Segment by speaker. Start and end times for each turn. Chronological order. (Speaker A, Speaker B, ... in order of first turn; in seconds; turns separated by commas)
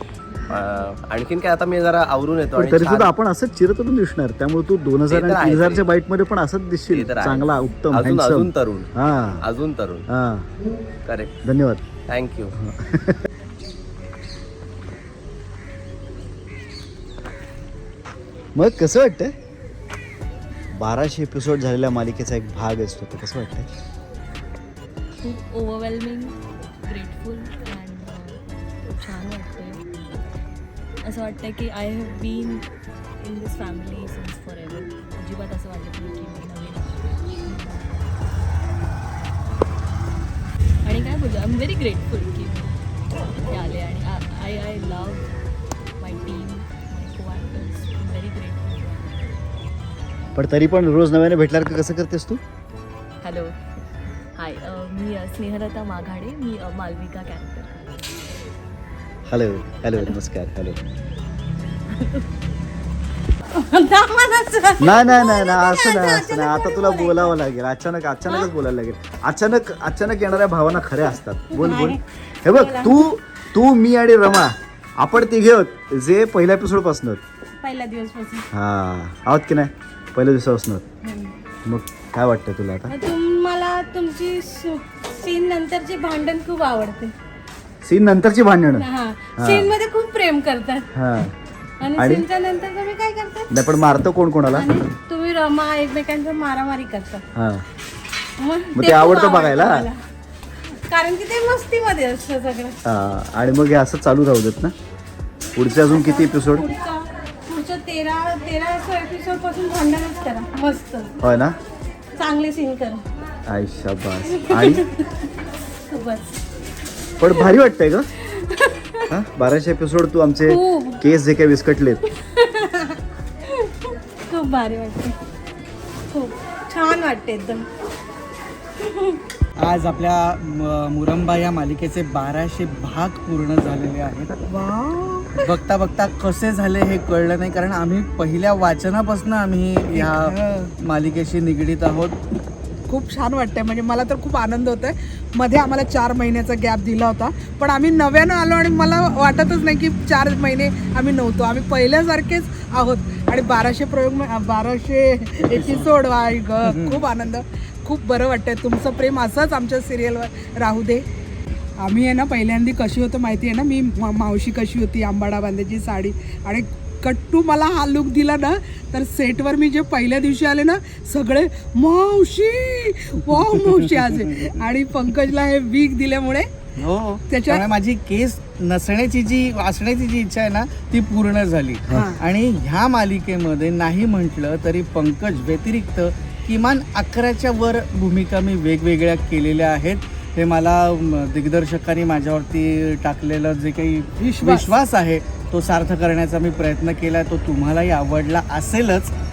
Speaker A: 0.5-3.1, Speaker B: 2.5-9.4, Speaker A: 5.1-5.8, Speaker A: 6.9-8.9, Speaker A: 9.4-10.1, Speaker B: 10.1-10.5, Speaker A: 11.1-11.4, Speaker B: 11.4-11.8, Speaker A: 12.1-12.5, Speaker B: 12.5-13.2, Speaker B: 18.5-19.3, Speaker B: 20.7-23.7, Speaker C: 25.2-28.4, Speaker C: 28.9-29.8, Speaker C: 31.0-32.6, Speaker C: 33.2-38.2, Speaker C: 40.8-42.8, Speaker C: 43.5-45.3, Speaker C: 46.0-49.4, Speaker B: 50.3-52.4, Speaker C: 53.2-53.6, Speaker C: 54.4-58.2, Speaker B: 59.3-60.8, Speaker D: 63.5-67.3, Speaker B: 64.8-77.2, Speaker D: 71.5-73.0, Speaker D: 77.6-78.5, Speaker B: 78.5-80.8, Speaker D: 81.0-81.3, Speaker B: 81.6-82.9, Speaker D: 82.9-87.1, Speaker B: 87.8-89.7, Speaker D: 88.8-90.9, Speaker B: 90.9-91.3, Speaker D: 91.8-93.5, Speaker B: 92.0-92.2, Speaker B: 93.5-94.7, Speaker D: 94.5-97.2, Speaker B: 97.3-97.7, Speaker D: 98.4-100.0, Speaker B: 98.7-99.9, Speaker D: 100.9-102.8, Speaker B: 102.8-104.7, Speaker B: 105.5-106.7, Speaker D: 105.8-111.1, Speaker B: 111.2-111.6, Speaker D: 112.2-113.0, Speaker B: 113.5-114.8, Speaker D: 114.3-115.2, Speaker D: 115.9-116.3, Speaker B: 117.2-118.1, Speaker D: 118.3-119.1, Speaker B: 119.1-122.0, Speaker D: 120.4-121.0, Speaker D: 122.3-123.0, Speaker D: 123.5-125.2, Speaker D: 126.1-127.7, Speaker D: 128.8-129.2, Speaker E: 129.6-134.3, Speaker F: 134.4-135.5, Speaker E: 135.3-142.2, Speaker F: 139.9-140.7, Speaker F: 142.9-161.1, Speaker E: 155.5-155.9, Speaker E: 156.6-157.1, Speaker F: 161.8-176.6, Speaker E: 173.6-174.5, Speaker E: 176.8-199.1, Speaker F: 177.3-177.6, Speaker F: 181.9-182.2, Speaker F: 194.2-194.7